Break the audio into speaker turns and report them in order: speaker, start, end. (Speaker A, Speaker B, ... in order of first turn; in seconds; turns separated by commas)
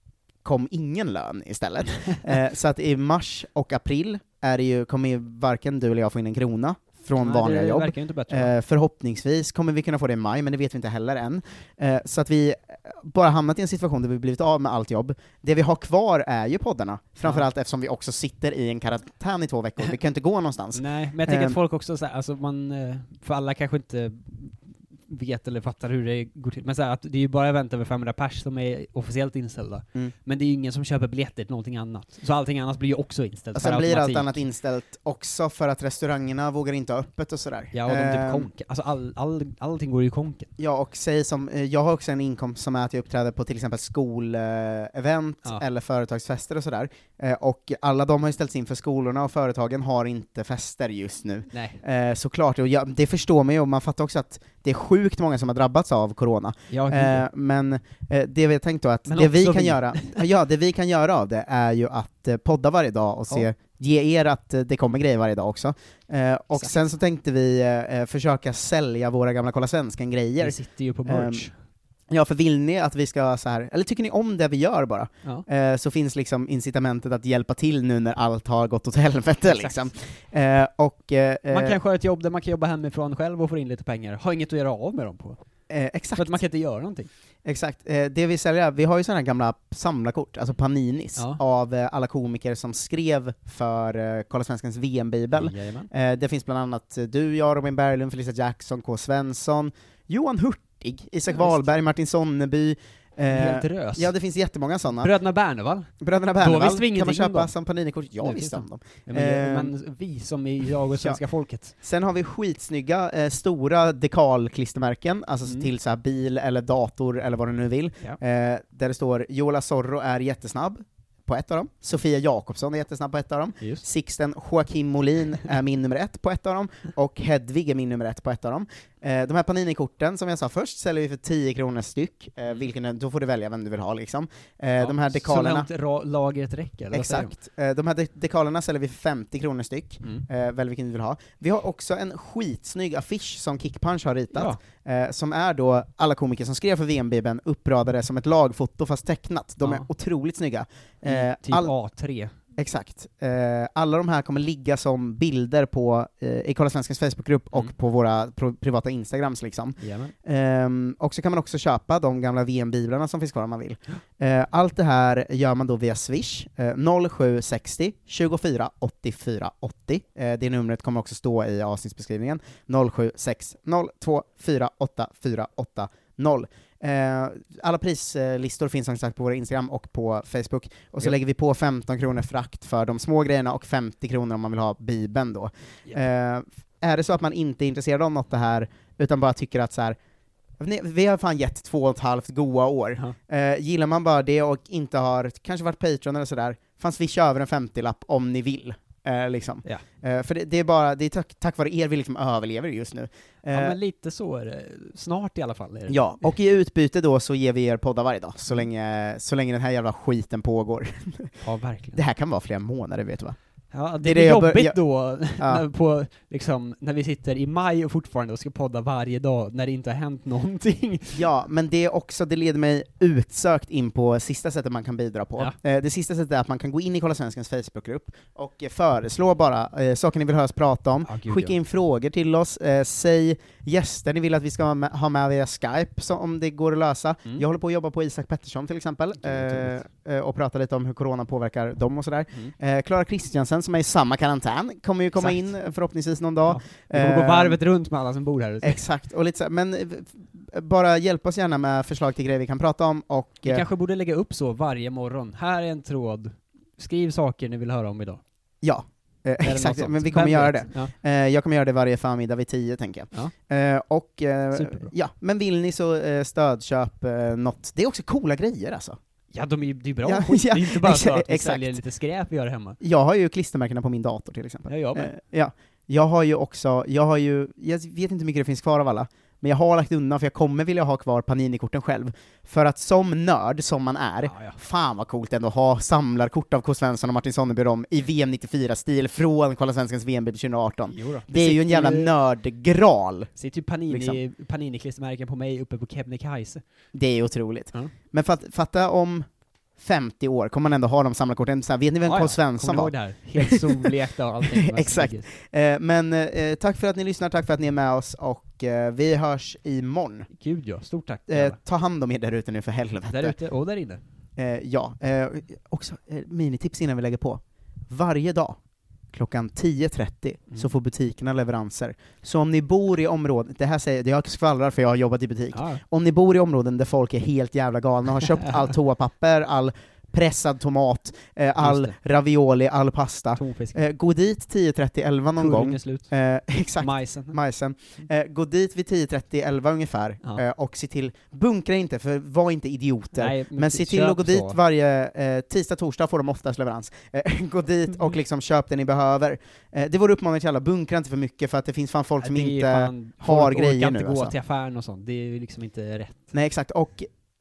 Speaker A: 0.4-21.6, Speaker B: 7.2-8.5, Speaker B: 20.7-34.4, Speaker A: 33.5-38.5, Speaker B: 37.7-40.5, Speaker A: 40.6-71.5, Speaker B: 51.5-51.8, Speaker B: 56.7-57.2, Speaker B: 59.1-60.2, Speaker B: 70.4-71.5, Speaker A: 72.1-81.8, Speaker B: 79.4-79.9, Speaker B: 81.5-85.4, Speaker A: 85.7-86.4, Speaker B: 86.2-87.1, Speaker A: 87.4-105.1, Speaker B: 95.3-95.9, Speaker B: 101.3-101.7, Speaker B: 103.3-104.1, Speaker B: 105.0-107.5, Speaker A: 106.0-109.7, Speaker B: 108.2-111.7, Speaker A: 110.9-111.2, Speaker A: 111.8-135.7, Speaker B: 134.8-137.3, Speaker A: 136.9-151.7, Speaker B: 144.3-144.6, Speaker B: 151.1-152.3, Speaker A: 152.6-189.9, Speaker B: 159.8-160.1, Speaker A: 190.6-203.8, Speaker B: 203.5-206.0, Speaker A: 205.9-211.3, Speaker B: 211.4-212.0, Speaker A: 211.9-213.4, Speaker B: 213.7-221.2, Speaker A: 214.0-214.8, Speaker A: 221.1-247.6, Speaker B: 231.0-231.5, Speaker B: 239.2-239.7, Speaker B: 245.2-245.4, Speaker B: 246.4-248.8, Speaker A: 248.6-253.6, Speaker B: 253.4-258.2, Speaker A: 258.6-269.0, Speaker B: 259.4-260.9, Speaker B: 264.5-264.9, Speaker B: 269.3-272.8, Speaker A: 270.0-271.8, Speaker A: 272.8-293.3, Speaker B: 274.7-275.1, Speaker B: 284.2-284.6, Speaker B: 290.9-292.1, Speaker B: 293.4-296.6, Speaker A: 293.9-294.2, Speaker A: 296.9-303.9, Speaker B: 302.0-305.3, Speaker A: 304.4-310.3, Speaker B: 310.3-311.6, Speaker A: 311.3-313.4, Speaker B: 313.1-314.0, Speaker A: 314.4-318.6, Speaker A: 319.1-354.3, Speaker B: 325.5-325.8, Speaker B: 331.6-331.9, Speaker B: 333.4-333.8, Speaker B: 335.4-336.1, Speaker B: 336.8-337.4, Speaker B: 343.1-344.6, Speaker B: 352.2-356.3, Speaker A: 356.3-357.1